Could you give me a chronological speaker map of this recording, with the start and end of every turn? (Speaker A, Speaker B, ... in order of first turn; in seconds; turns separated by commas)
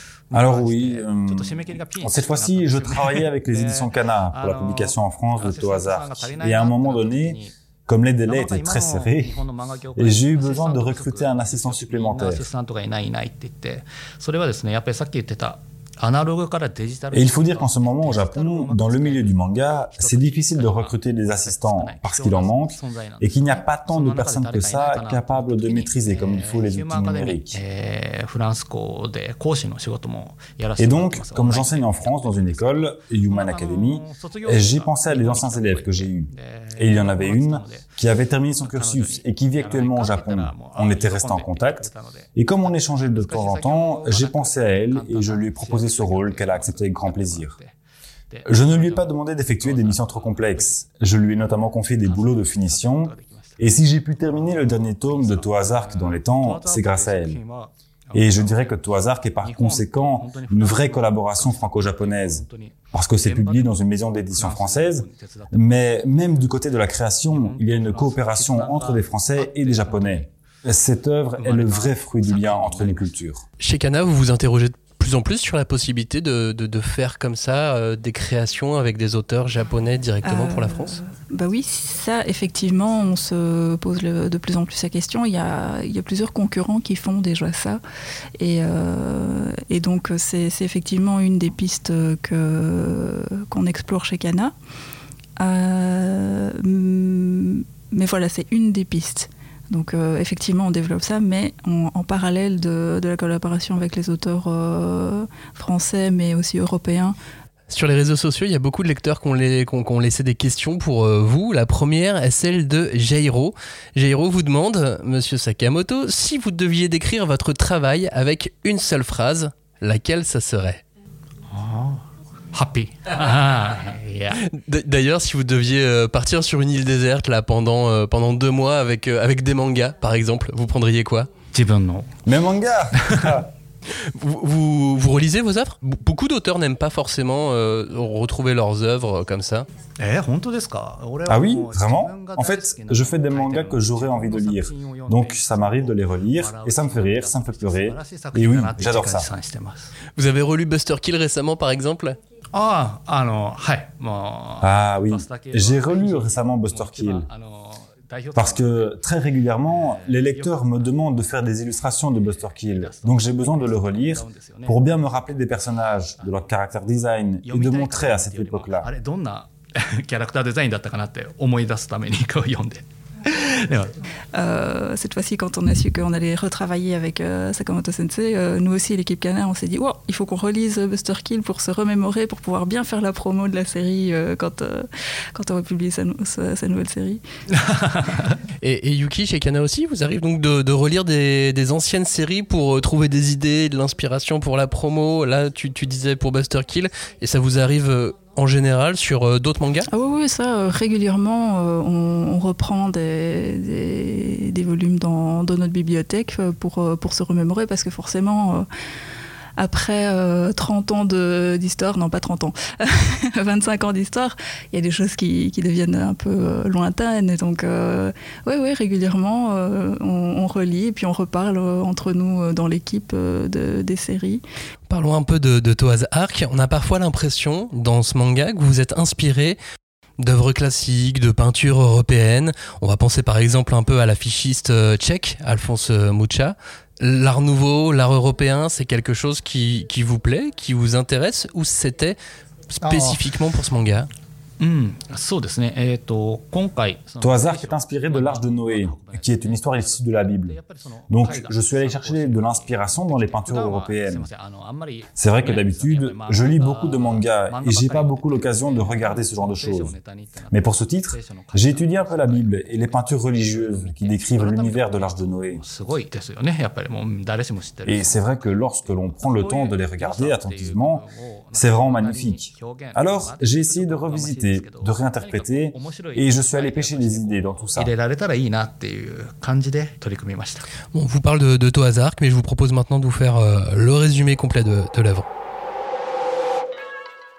Speaker A: 0.3-7.5, Speaker B: 0.3-9.4, Speaker A: 8.2-19.3, Speaker B: 9.9-12.4, Speaker B: 17.1-27.6, Speaker A: 19.9-38.0, Speaker B: 30.8-47.5, Speaker A: 38.6-42.3, Speaker A: 43.1-47.7, Speaker A: 48.3-50.8, Speaker B: 48.5-57.4, Speaker A: 52.0-53.6, Speaker A: 54.2-58.8, Speaker B: 58.1-73.4, Speaker A: 59.4-63.8, Speaker A: 64.3-65.6, Speaker A: 67.3-70.3, Speaker A: 71.4-73.1, Speaker C: 73.6-81.0, Speaker D: 80.2-87.8, Speaker D: 88.4-94.5, Speaker D: 95.4-107.2, Speaker C: 107.7-120.8, Speaker A: 121.5-122.0, Speaker A: 122.5-124.4, Speaker C: 124.3-131.3, Speaker A: 131.5-132.2, Speaker B: 132.2-133.5, Speaker A: 132.9-133.4, Speaker C: 133.9-139.7, Speaker A: 140.0-150.0, Speaker B: 141.3-149.3, Speaker C: 150.1-152.2, Speaker A: 152.5-158.9, Speaker B: 154.6-157.2, Speaker B: 158.3-168.9, Speaker A: 159.7-160.8, Speaker A: 162.6-164.8, Speaker A: 167.4-173.9, Speaker D: 174.3-187.2, Speaker A: 187.6-188.3, Speaker C: 188.6-199.9, Speaker D: 199.9-208.7, Speaker D: 209.6-224.4, Speaker C: 224.9-229.6, Speaker C: 230.2-242.2, Speaker C: 242.7-244.1, Speaker A: 244.6-268.2, Speaker B: 247.2-250.6, Speaker B: 251.1-254.3, Speaker B: 255.2-259.9, Speaker B: 260.5-265.6, Speaker B: 267.9-277.9, Speaker A: 269.1-280.7, Speaker C: 280.9-285.2